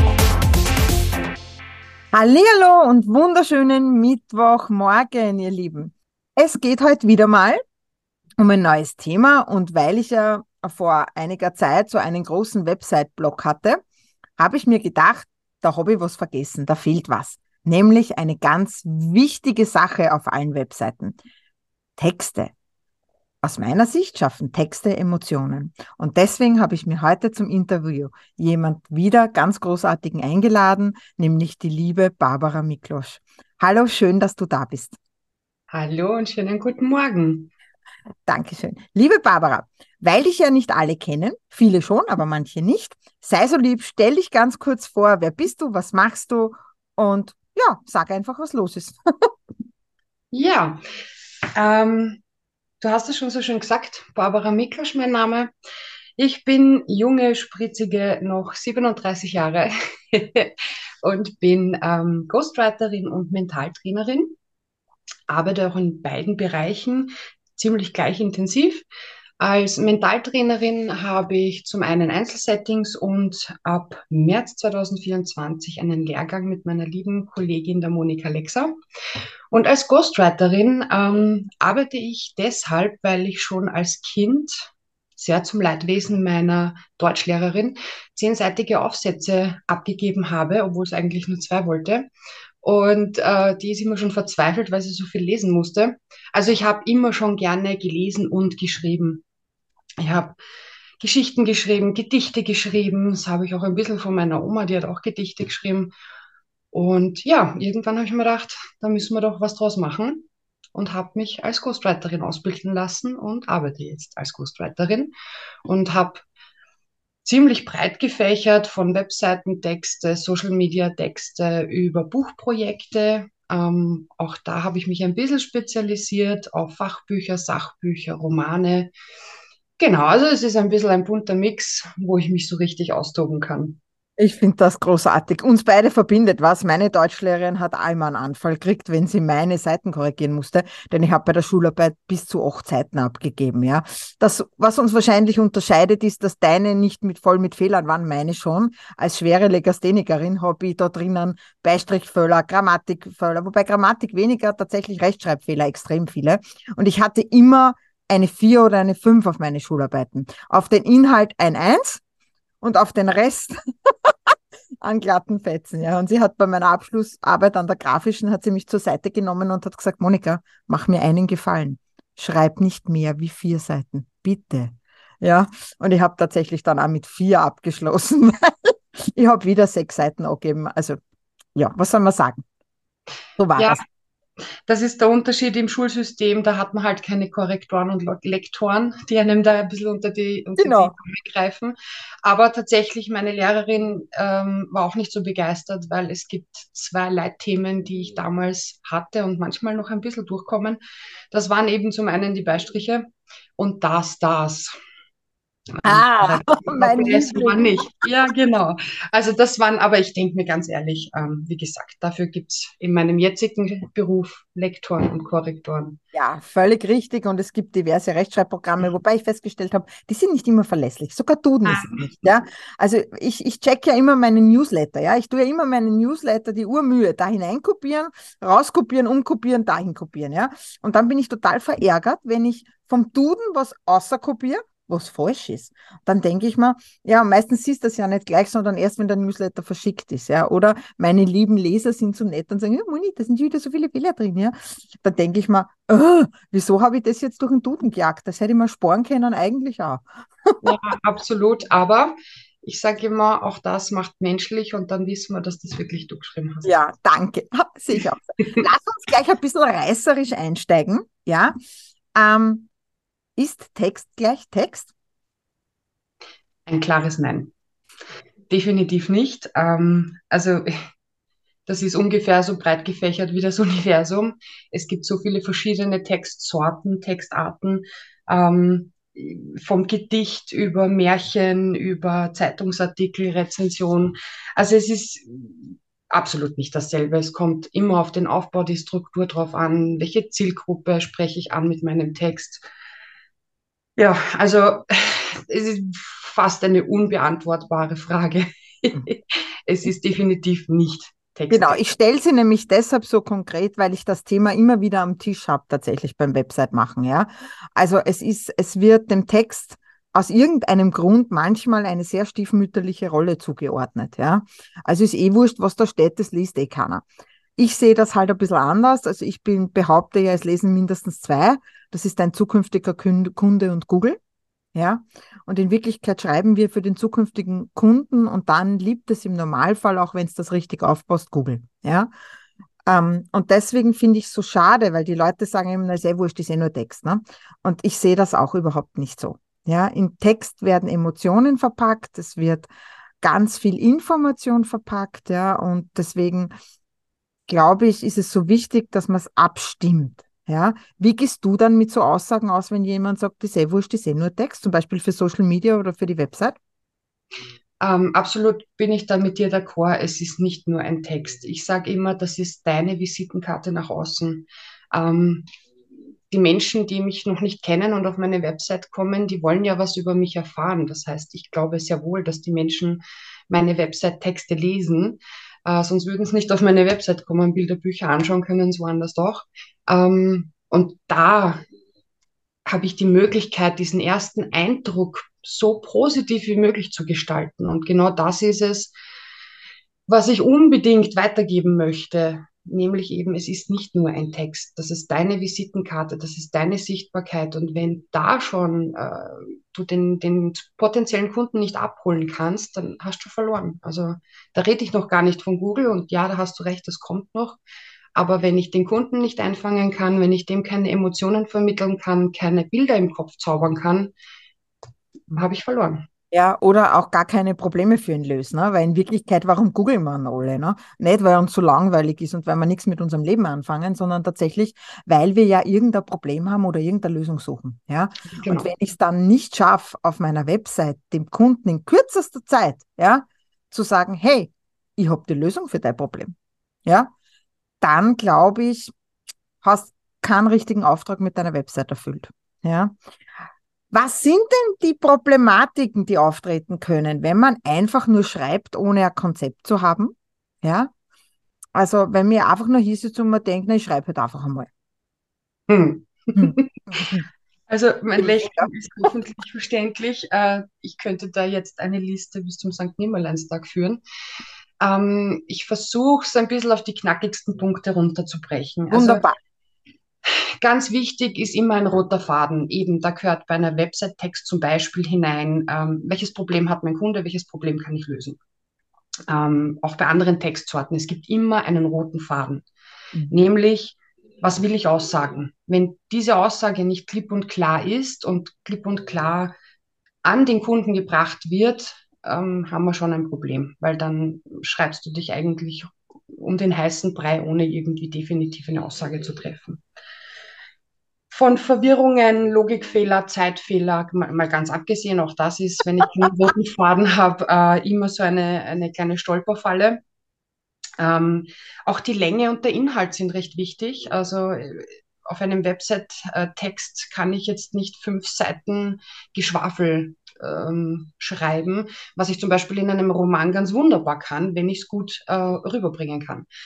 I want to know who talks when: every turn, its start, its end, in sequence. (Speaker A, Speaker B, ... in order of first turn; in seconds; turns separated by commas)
Speaker A: 2.1-7.6, Speaker A: 8.4-13.8, Speaker A: 14.4-21.2, Speaker A: 22.0-22.5, Speaker A: 23.4-35.0, Speaker B: 35.7-37.5, Speaker A: 38.2-49.3, Speaker B: 50.3-50.8, Speaker B: 51.5-52.2, Speaker B: 52.8-55.5, Speaker B: 56.2-64.3, Speaker B: 65.3-68.8, Speaker B: 69.4-78.7, Speaker B: 79.5-92.1, Speaker B: 92.6-99.2, Speaker B: 100.0-100.4, Speaker B: 101.0-105.9, Speaker B: 106.7-115.1, Speaker B: 115.7-116.2, Speaker B: 117.2-128.9, Speaker B: 129.8-133.8, Speaker A: 134.2-162.0, Speaker A: 162.6-181.0, Speaker A: 181.6-182.4, Speaker A: 183.4-183.8, Speaker B: 183.6-183.8, Speaker B: 184.7-200.8, Speaker A: 190.6-190.9, Speaker B: 201.3-203.1, Speaker B: 203.6-204.7, Speaker B: 205.8-216.0, Speaker A: 205.8-208.1, Speaker A: 216.1-250.8, Speaker B: 221.6-222.2, Speaker B: 250.6-256.9, Speaker A: 256.6-261.5, Speaker A: 262.1-262.7, Speaker A: 263.4-264.9, Speaker B: 266.6-267.5, Speaker B: 268.5-270.7, Speaker B: 271.6-292.6, Speaker B: 294.0-301.8, Speaker A: 301.5-317.0, Speaker A: 317.6-324.2, Speaker A: 324.7-332.1, Speaker A: 332.9-342.7, Speaker A: 343.2-346.5, Speaker A: 347.5-356.6, Speaker B: 357.8-365.4, Speaker B: 366.3-381.6, Speaker B: 382.6-388.9, Speaker B: 390.1-407.6, Speaker B: 408.1-414.1, Speaker B: 415.3-416.0, Speaker A: 416.3-436.3, Speaker B: 428.3-428.7, Speaker A: 436.8-437.1, Speaker A: 437.8-438.9, Speaker A: 439.6-443.0, Speaker A: 443.9-450.9, Speaker A: 451.7-454.7, Speaker B: 455.7-457.1, Speaker A: 456.4-457.2, Speaker B: 457.7-464.0, Speaker A: 458.2-458.7, Speaker B: 464.8-469.2, Speaker A: 468.9-469.3, Speaker B: 470.2-478.4, Speaker B: 479.3-482.6, Speaker B: 483.3-489.5, Speaker B: 490.2-499.8, Speaker B: 501.3-510.0, Speaker B: 511.0-526.5